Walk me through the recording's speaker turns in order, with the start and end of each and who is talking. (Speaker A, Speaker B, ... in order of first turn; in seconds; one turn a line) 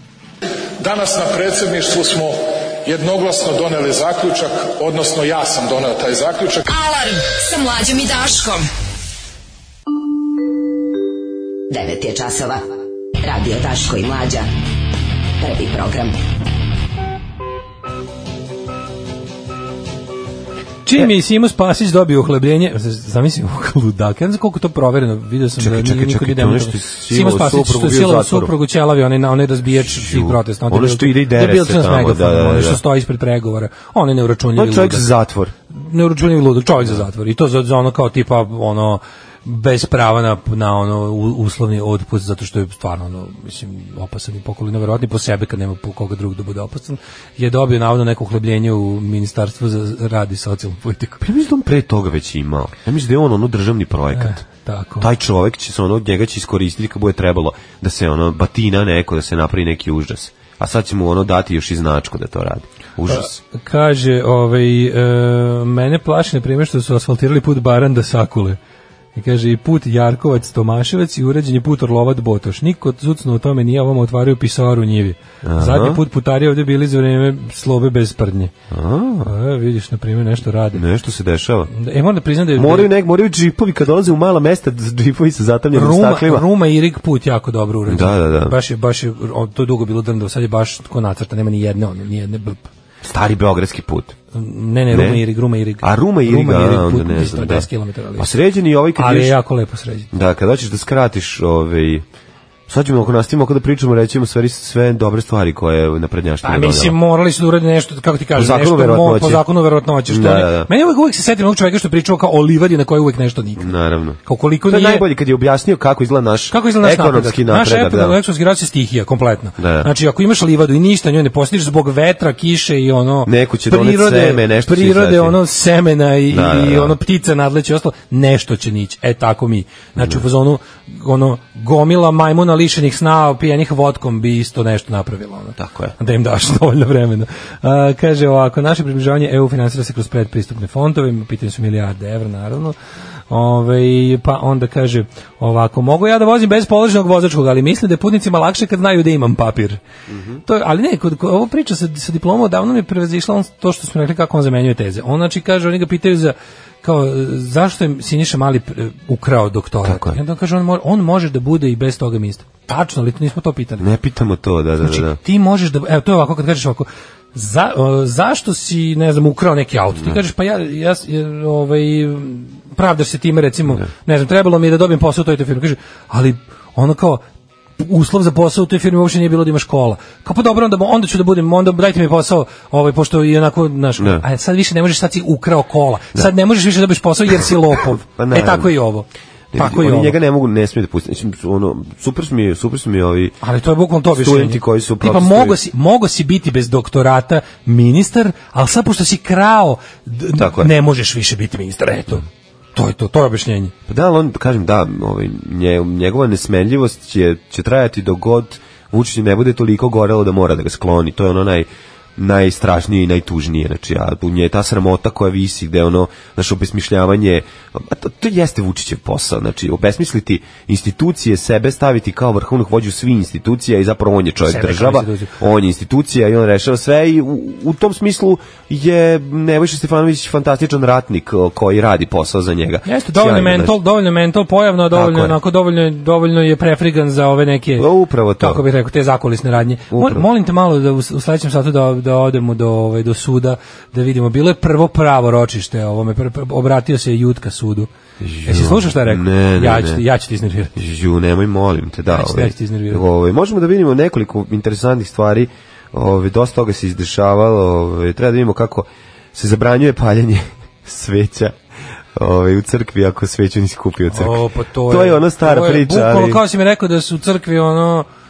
Speaker A: 0.8-6.7
Speaker B: 6.7-8.7
Speaker C: 11.7-12.6
Speaker C: 13.2-14.5
Speaker C: 15.4-16.2
Speaker D: 20.9-35.1
Speaker E: 25.6-28.5
Speaker E: 29.9-32.8
Speaker E: 34.5-35.5
Speaker D: 35.7-51.2
Speaker E: 51.2-54.4
Speaker D: 54.1-55.1
Speaker E: 55.0-63.4
Speaker D: 63.1-68.6
Speaker D: 69.2-78.5
Speaker E: 75.4-76.0
Speaker E: 78.7-79.3
Speaker D: 79.2-80.8
Speaker E: 80.7-81.7
Speaker D: 81.7-82.9
Speaker E: 82.5-86.5
Speaker D: 85.7-92.7
Speaker E: 87.9-88.6
Speaker E: 93.0-94.2
Speaker D: 94.3-98.3
Speaker E: 94.9-95.2
Speaker E: 95.8-99.4
Speaker D: 99.0-100.1
Speaker E: 100.1-102.0
Speaker E: 102.7-107.0
Speaker D: 106.4-113.7
Speaker E: 108.4-109.5
Speaker E: 110.1-110.7
Speaker E: 113.6-118.2
Speaker D: 114.2-115.1
Speaker D: 116.5-142.8
Speaker E: 119.6-119.9
Speaker E: 123.3-125.4
Speaker E: 126.3-127.0
Speaker E: 130.0-130.2
Speaker E: 135.6-135.9
Speaker D: 143.3-149.8
Speaker E: 150.1-150.4
Speaker D: 150.5-163.9
Speaker E: 159.8-160.2
Speaker E: 163.8-165.2
Speaker D: 164.8-177.2
Speaker D: 177.8-190.2
Speaker E: 188.0-188.7
Speaker E: 189.5-193.3
Speaker D: 193.4-203.7
Speaker E: 194.2-195.6
Speaker E: 200.4-200.7
Speaker E: 203.9-233.8
Speaker D: 224.5-225.3
Speaker D: 232.8-237.9
Speaker E: 234.9-235.4
Speaker E: 237.8-238.6
Speaker D: 238.4-247.9
Speaker E: 239.9-240.2
Speaker E: 248.2-250.0
Speaker D: 248.4-250.8
Speaker E: 250.8-261.6
Speaker D: 252.1-253.1
Speaker E: 262.1-266.4
Speaker D: 264.1-268.1